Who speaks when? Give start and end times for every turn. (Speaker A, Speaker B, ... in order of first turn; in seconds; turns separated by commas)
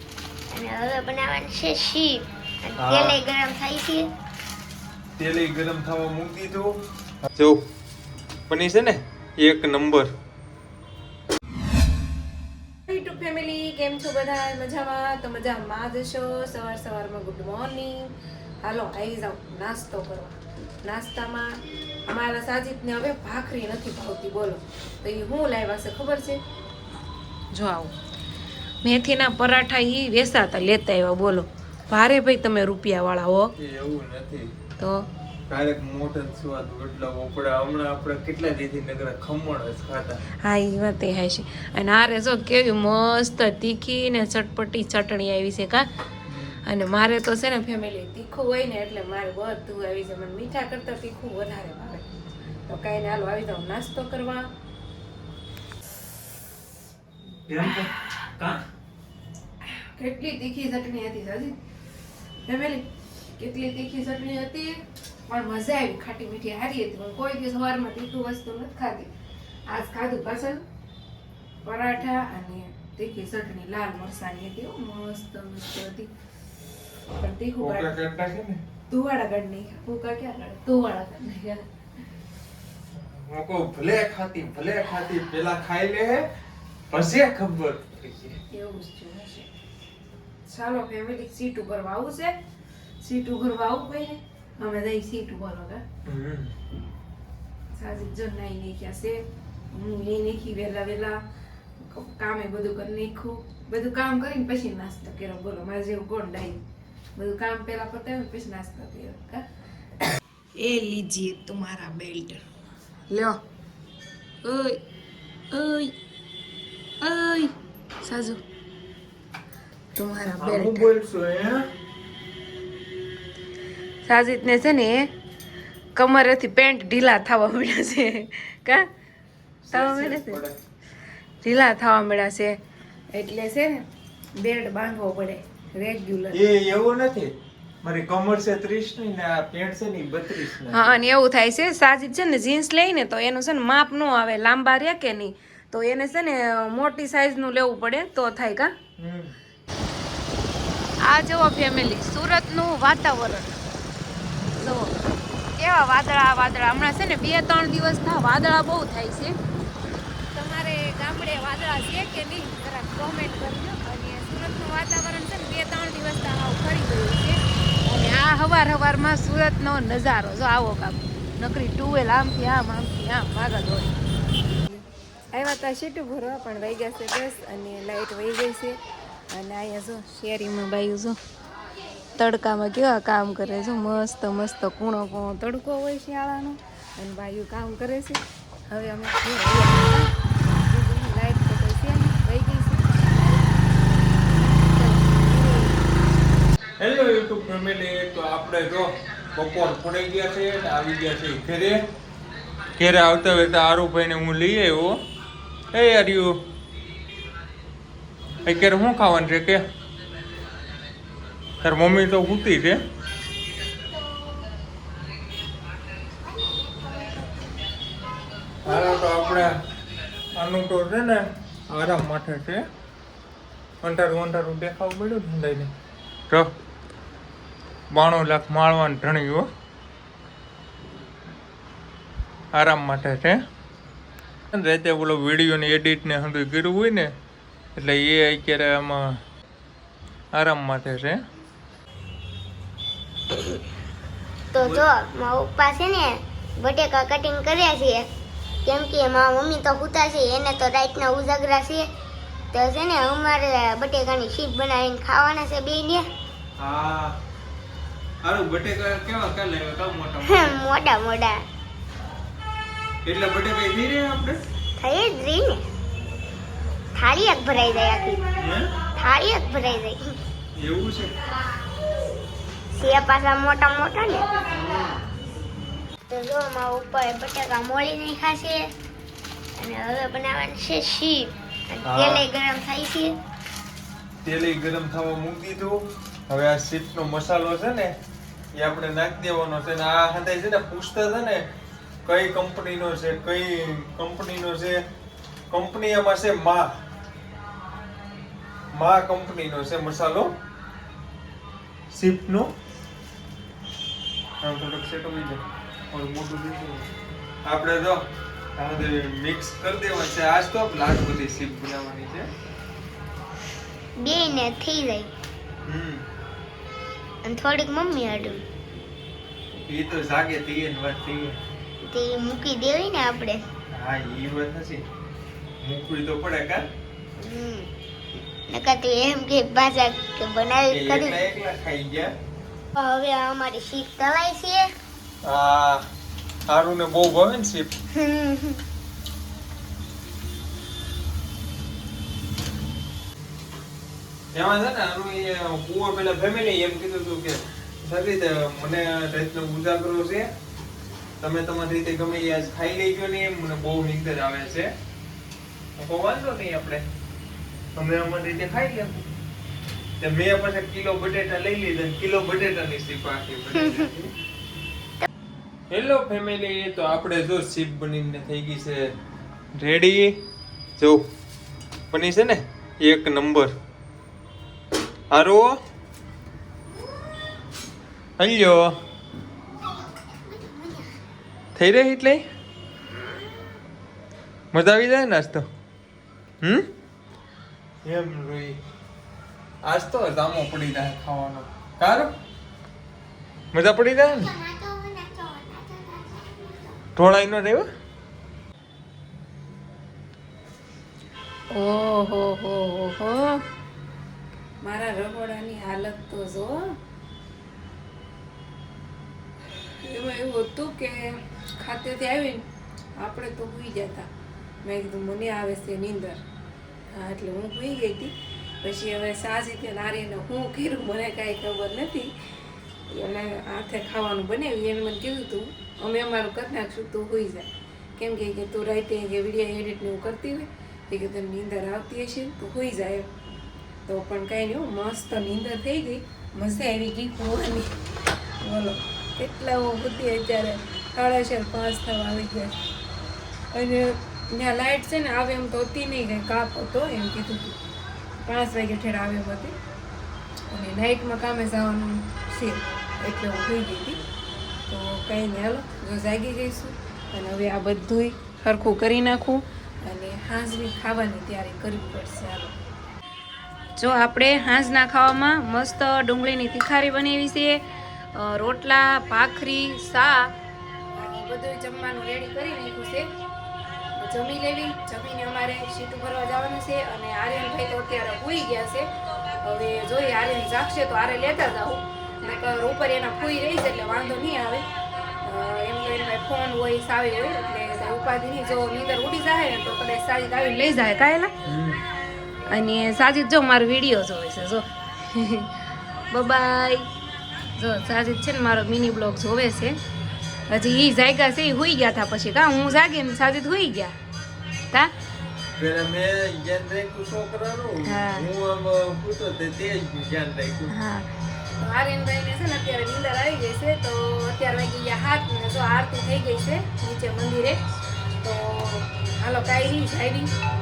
Speaker A: 0.5-4.1, Speaker B: 2.8-3.2, Speaker B: 5.2-6.7, Speaker B: 7.3-7.7, Speaker B: 8.5-10.1, Speaker C: 12.9-18.1, Speaker C: 18.6-21.5, Speaker C: 22.1-26.4, Speaker C: 27.5-27.9, Speaker C: 28.8-33.5, Speaker B: 33.6-34.5, Speaker C: 34.8-35.1, Speaker B: 35.5-40.2, Speaker C: 40.4-45.9, Speaker B: 46.3-46.6, Speaker C: 46.6-52.0, Speaker C: 52.7-54.5, Speaker B: 57.5-58.6, Speaker C: 59.9-61.6, Speaker C: 62.4-62.9, Speaker C: 63.4-69.1, Speaker C: 69.7-70.6, Speaker C: 71.6-76.1, Speaker C: 77.2-77.9, Speaker B: 77.6-78.6, Speaker C: 78.9-81.6, Speaker B: 82.9-86.2, Speaker B: 86.9-88.4, Speaker C: 88.5-89.5, Speaker C: 90.5-92.3, Speaker C: 93.0-95.8, Speaker B: 96.0-96.5, Speaker C: 97.7-101.2, Speaker C: 101.8-106.6, Speaker C: 107.2-109.5, Speaker C: 110.5-112.4, Speaker C: 113.1-113.4, Speaker C: 114.4-114.8, Speaker C: 115.5-115.9, Speaker C: 117.0-118.4, Speaker C: 119.9-120.9, Speaker B: 120.4-121.7, Speaker C: 124.0-125.0, Speaker C: 126.0-128.8, Speaker B: 129.6-130.6, Speaker C: 129.7-130.4, Speaker C: 131.4-132.6, Speaker C: 133.1-133.7, Speaker C: 134.3-136.4, Speaker B: 136.3-137.3, Speaker B: 137.8-140.9, Speaker C: 140.7-148.7, Speaker B: 149.0-149.3, Speaker C: 151.0-153.6, Speaker C: 154.5-155.0, Speaker C: 155.5-159.3, Speaker C: 160.3-178.8, Speaker C: 179.3-181.2, Speaker C: 182.2-195.9, Speaker B: 196.8-201.8, Speaker B: 202.8-204.9, Speaker B: 205.7-206.3, Speaker B: 208.4-209.6, Speaker B: 211.6-212.8, Speaker B: 218.6-219.5, Speaker B: 220.3-222.6, Speaker B: 223.8-225.7, Speaker B: 227.9-229.4, Speaker B: 232.5-233.4, Speaker B: 234.5-237.1, Speaker B: 237.8-239.1, Speaker B: 240.3-241.2, Speaker A: 244.5-248.1, Speaker B: 244.6-244.8, Speaker A: 248.7-251.9, Speaker A: 252.5-256.1, Speaker B: 256.6-257.1, Speaker B: 258.2-260.6, Speaker A: 260.3-261.4, Speaker B: 263.0-264.4, Speaker A: 264.8-265.6, Speaker A: 267.0-268.2, Speaker B: 268.4-268.7, Speaker A: 268.9-270.1, Speaker B: 270.6-271.1, Speaker A: 272.7-274.2, Speaker B: 274.5-274.9, Speaker A: 276.1-278.6, Speaker A: 279.6-283.1, Speaker B: 281.8-282.2, Speaker B: 284.2-285.8, Speaker B: 286.3-287.9, Speaker B: 288.6-291.4, Speaker B: 292.0-294.8, Speaker B: 295.5-296.6, Speaker B: 298.7-300.3, Speaker B: 301.9-302.5, Speaker B: 304.4-306.9, Speaker B: 307.4-308.0, Speaker B: 308.6-312.2, Speaker A: 314.0-315.1, Speaker B: 315.6-316.0, Speaker A: 317.2-318.4, Speaker B: 319.7-321.4, Speaker A: 321.9-323.4, Speaker B: 323.7-324.8, Speaker B: 325.6-326.6, Speaker A: 327.2-327.7, Speaker A: 328.5-331.1, Speaker B: 330.7-332.1, Speaker A: 332.7-334.7, Speaker B: 335.2-335.8, Speaker B: 336.5-337.7, Speaker A: 337.9-338.6, Speaker B: 344.3-350.3, Speaker B: 351.2-354.7, Speaker B: 355.8-356.8, Speaker B: 357.7-359.0, Speaker B: 360.0-364.1, Speaker A: 363.6-363.9, Speaker B: 365.7-368.9, Speaker B: 369.6-370.2, Speaker B: 370.8-371.0, Speaker B: 371.9-373.5, Speaker B: 375.1-375.5, Speaker B: 378.2-378.7, Speaker A: 380.1-380.9, Speaker B: 381.5-382.2, Speaker B: 384.5-385.4, Speaker B: 387.8-388.6, Speaker B: 389.6-392.1, Speaker B: 393.5-394.3, Speaker A: 394.0-396.8, Speaker B: 396.9-397.7, Speaker C: 401.5-403.4, Speaker C: 404.6-406.6, Speaker C: 409.8-411.0, Speaker C: 411.6-412.4, Speaker C: 413.0-414.1, Speaker C: 414.6-416.2, Speaker C: 416.9-422.1, Speaker C: 422.9-433.1, Speaker C: 433.9-437.7, Speaker C: 438.4-442.6, Speaker C: 443.5-447.6, Speaker C: 448.2-449.5, Speaker C: 450.5-454.0, Speaker C: 454.7-462.5, Speaker C: 463.8-467.6, Speaker C: 468.1-470.3, Speaker C: 470.9-473.1, Speaker C: 473.9-478.9, Speaker C: 479.4-484.7, Speaker C: 485.2-491.3, Speaker B: 491.4-491.8, Speaker C: 492.5-495.5, Speaker C: 496.1-496.9, Speaker C: 497.6-499.8, Speaker C: 500.5-503.9, Speaker B: 505.6-510.7, Speaker C: 507.8-508.3, Speaker C: 510.7-517.6, Speaker C: 518.2-520.3